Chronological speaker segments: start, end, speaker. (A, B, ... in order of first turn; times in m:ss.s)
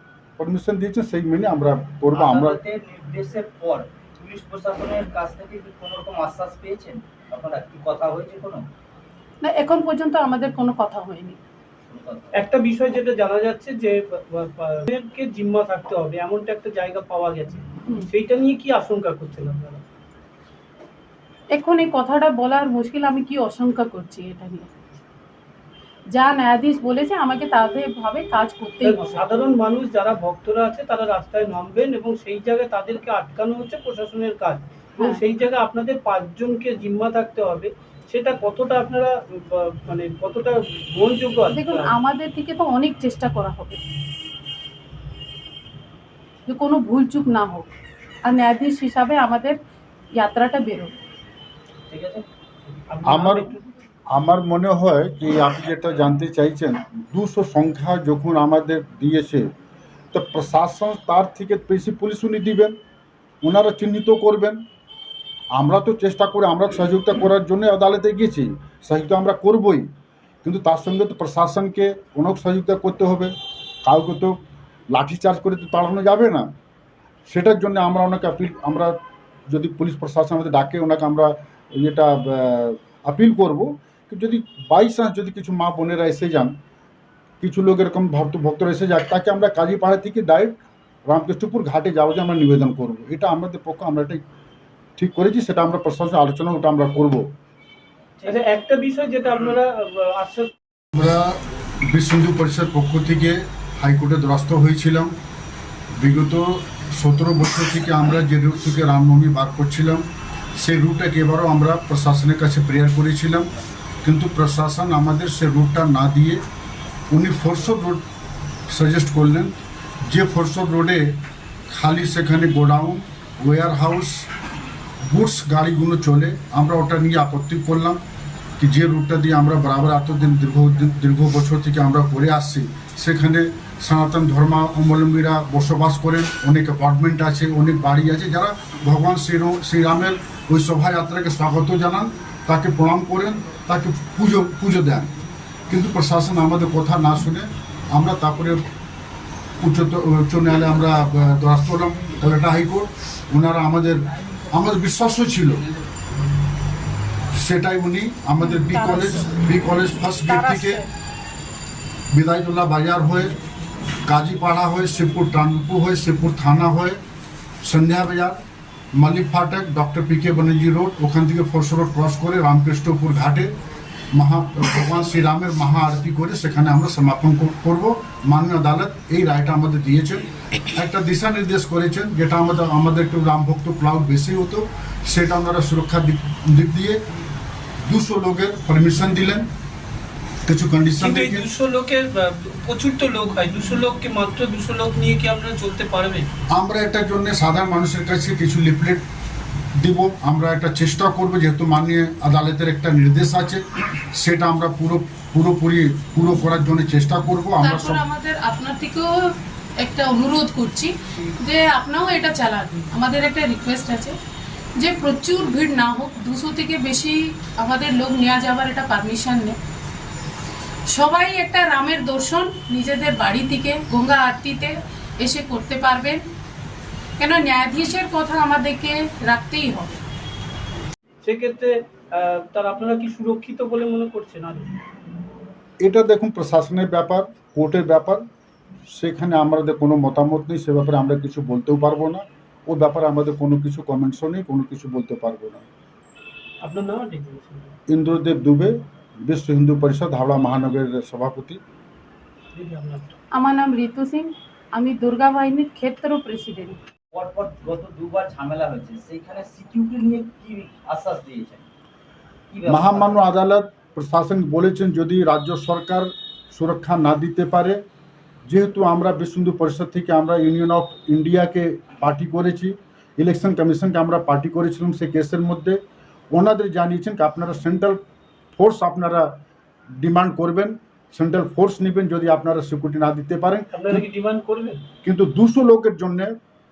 0:00.4-0:02.6 A
0:02.1-0:08.7 B
0:09.4-0:11.4 C
0:11.9-0:12.4 B
0:12.3-0:19.8 D
0:21.5-0:24.7 C
0:26.1-0:29.2 C
0:28.8-0:41.9 D
0:41.5-0:43.8 C
0:46.4-0:47.7 C
0:48.2-0:49.6 C
0:50.1-0:50.9 C
0:51.9-0:52.2 B
0:52.9-0:53.6 D
0:53.0-0:53.5 A
0:54.1-0:59.5 A
1:00.1-1:02.8 A
1:03.4-1:04.6 A
1:05.5-1:09.9 A
1:10.4-1:13.3 A
1:13.8-1:14.4 A
1:14.9-1:16.5 A
1:17.3-1:19.0 A
1:19.5-1:26.5 A
1:27.4-1:34.2 A
1:35.0-1:37.3 A
1:38.2-1:40.5 D
1:40.9-1:45.1 A
1:46.0-1:53.5 A
1:54.0-1:56.4 A
1:57.1-1:58.0 A
1:58.7-1:59.6 A
2:00.1-2:01.0 A
2:01.7-2:04.3 A
2:05.0-2:08.0 A
2:08.6-2:25.1 A
2:25.7-2:28.6 A
2:29.6-2:35.7 A
2:37.3-2:40.8 A
2:38.4-2:39.4 C
2:40.3-2:40.9 C
2:42.1-2:43.4 A
2:44.0-2:47.0 A
2:47.6-2:48.4 A
2:49.0-2:53.5 A
2:54.1-3:07.0 A
3:07.8-3:09.5 A
3:10.4-3:11.5 A
3:11.0-3:16.3 D
3:16.5-3:19.0 A
3:19.7-3:28.0 A
3:27.6-3:34.2 C
3:34.8-3:39.6 C
3:40.9-3:46.2 C
3:47.2-3:50.0 C
3:51.2-3:54.8 D
3:55.8-3:58.2 A
3:58.9-4:05.6 A
4:06.6-4:07.7 D
4:07.9-4:11.6 A
4:12.5-4:13.2 D
4:13.3-4:16.8 C
4:17.1-4:21.7 B
4:22.5-4:23.3 B
4:22.7-4:27.8 A
4:28.5-4:35.8 A
4:36.3-4:38.0 A
4:38.5-4:39.3 A
4:40.0-4:44.0 A
4:43.7-4:44.8 D
4:45.0-4:46.3 A